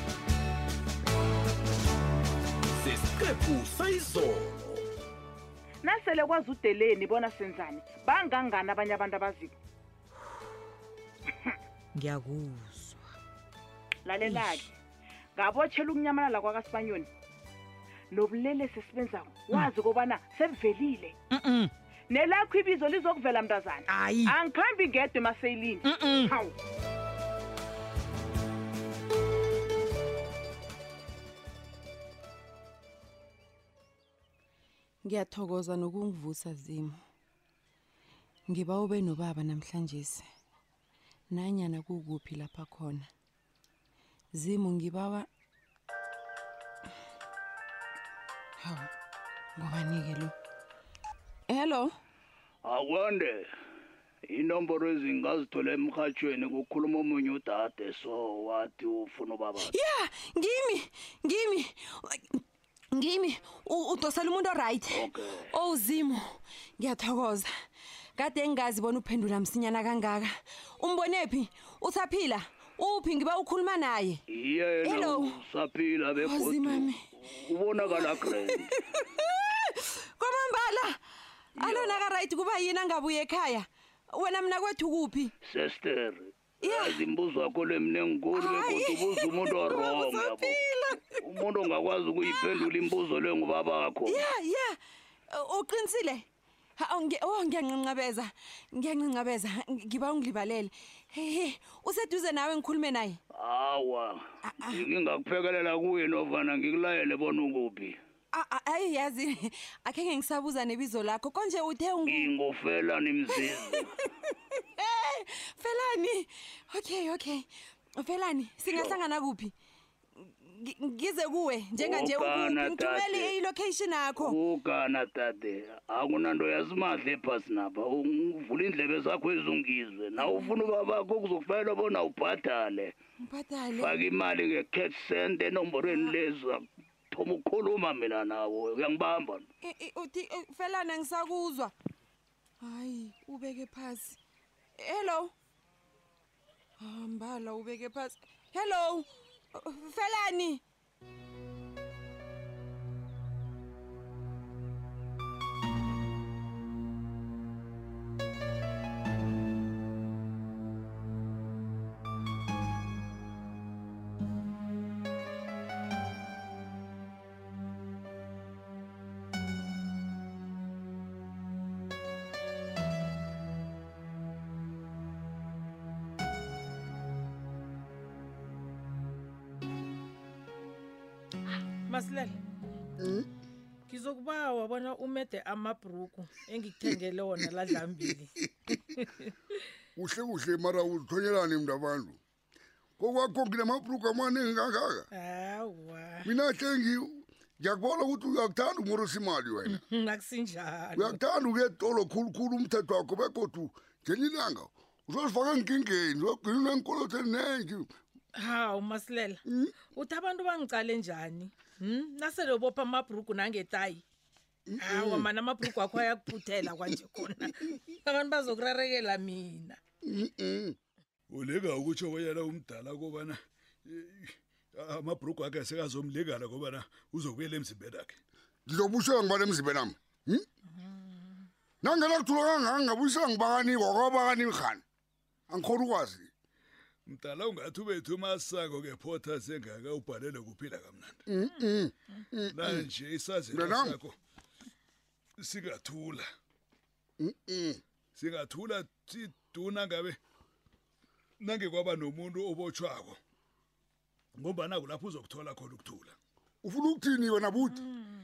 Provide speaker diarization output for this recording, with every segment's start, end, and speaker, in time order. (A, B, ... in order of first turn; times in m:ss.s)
0:02.8-0:04.8 A
0:05.8-0:09.5 B
0:11.9-0:13.0 C
0:14.0-0:14.7 B
0:14.2-0:14.6 C
0:15.4-0:17.1 B
0:18.1-0:21.2 B
0:21.3-0:21.7 C
0:22.1-0:26.5 B
0:23.9-0:24.4 C
0:25.8-0:26.3 C
0:35.0-0:37.0 D
0:38.5-0:40.3 D
0:41.3-0:43.1 D
0:44.3-0:45.3 D
0:48.6-0:48.9 D
0:49.6-0:50.3 D
0:51.5-0:51.9 D
0:52.6-0:53.5 E
0:54.3-0:59.7 E
0:59.6-1:02.4 D
1:02.9-1:07.5 D
1:04.9-1:05.4 E
1:08.2-1:14.2 D
1:14.3-1:18.7 E
1:14.8-1:15.3 D
1:16.2-1:17.0 D
1:17.9-1:21.0 D
1:21.6-1:25.3 D
1:21.6-1:22.0 E
1:25.4-1:30.6 E
1:26.6-1:27.0 D
1:28.3-1:31.2 D
1:31.2-1:34.3 E
1:32.2-1:32.6 D
1:34.1-1:34.8 D
1:35.3-1:36.2 D
1:36.8-1:43.2 D
1:43.3-1:48.0 E
1:48.3-1:52.3 D
1:52.0-1:53.8 E
1:53.7-1:59.5 D
1:58.6-1:59.0 E
2:00.2-2:04.3 D
2:01.8-2:03.4 E
2:04.2-2:12.9 E
2:10.2-2:10.5 D
2:13.2-2:14.0 D
2:13.8-2:19.4 E
2:19.6-2:21.7 D
2:22.6-2:24.2 D
2:24.8-2:25.3 D
2:26.8-2:30.6 D
3:01.9-3:02.4 F
3:03.0-3:03.2 G
3:03.9-3:08.3 F
3:07.7-3:08.0 G
3:09.0-3:09.3 F
3:10.0-3:12.2 G
3:13.0-3:15.1 G
3:15.1-3:16.3 F
3:16.2-3:19.8 G
3:19.6-3:21.2 F
3:20.9-3:27.9 G
3:28.4-3:34.0 F
3:29.5-3:29.8 G
3:34.7-3:35.8 G
3:34.8-3:39.8 F
3:40.0-3:40.8 G
3:41.3-3:48.2 H
3:48.7-3:50.4 G
3:51.8-3:54.8 G
3:55.5-3:56.3 G
3:57.1-4:01.2 H
4:01.3-4:02.9 G
4:02.5-4:04.2 H
4:03.5-4:04.0 G
4:05.4-4:06.3 H
4:07.2-4:07.8 G
4:08.1-4:10.2 H
4:11.4-4:13.2 H
4:14.4-4:16.2 H
4:16.6-4:17.8 G